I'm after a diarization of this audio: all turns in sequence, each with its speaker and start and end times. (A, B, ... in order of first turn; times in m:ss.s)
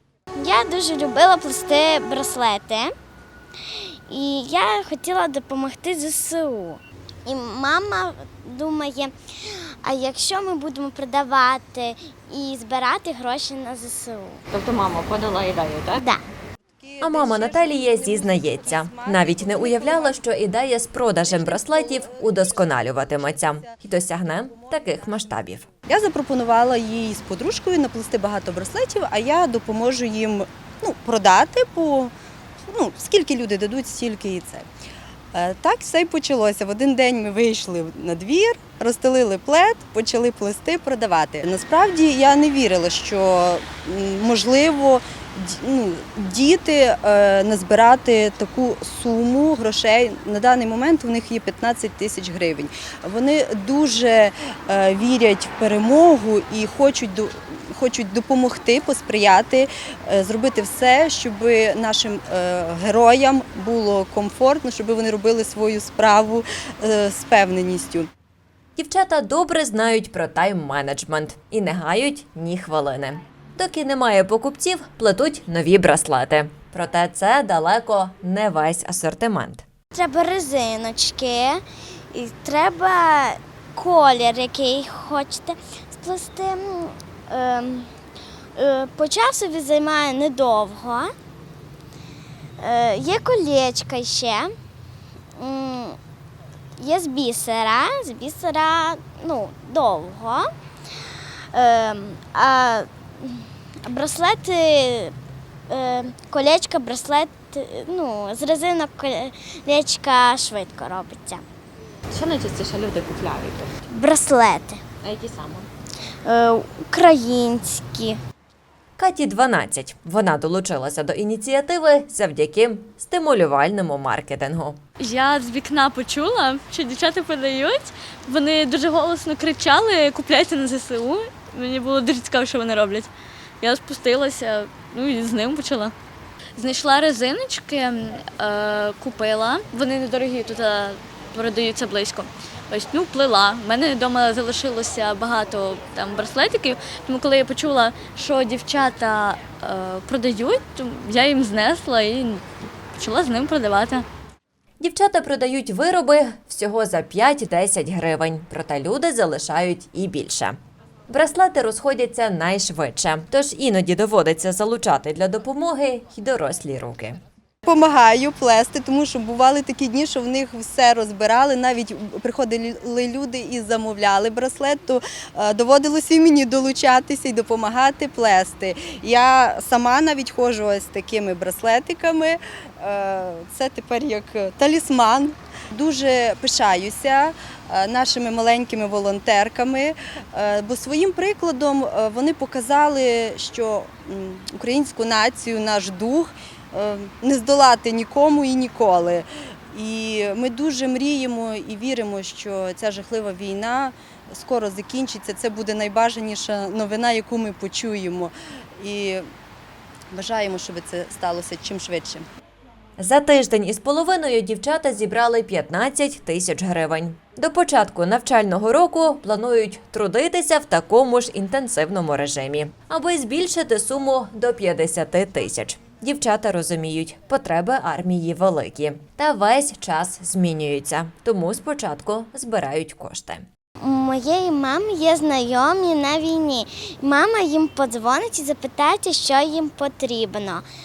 0:00.4-0:02.9 A
0:03.8-0:14.4 A
0:14.5-0:16.0 B
0:16.0-0:16.2 A
0:16.8-0:20.2 C
0:17.0-0:25.7 D
0:21.3-0:23.8 C
0:24.4-0:25.2 C
0:25.9-0:32.1 C
0:32.6-0:34.7 C
0:35.3-1:08.1 C
1:08.8-1:19.6 D
1:19.9-1:21.6 A
1:22.1-1:27.9 A
1:28.6-1:31.1 A
1:32.6-1:34.5 A
1:35.4-1:36.0 A
1:36.8-1:40.5 A
1:41.5-1:45.1 A
1:45.7-1:51.4 A
1:52.1-1:53.8 B
1:53.9-1:54.8 A
1:55.0-1:55.7 B
1:56.2-1:58.2 A
1:59.0-2:04.8 D
2:05.0-2:15.9 E
2:16.6-2:34.0 E
2:34.8-2:40.6 D
2:41.1-2:47.2 D
2:47.6-3:29.2 C
3:30.1-3:32.2 C
3:33.0-3:53.5 D
3:53.8-4:00.6 A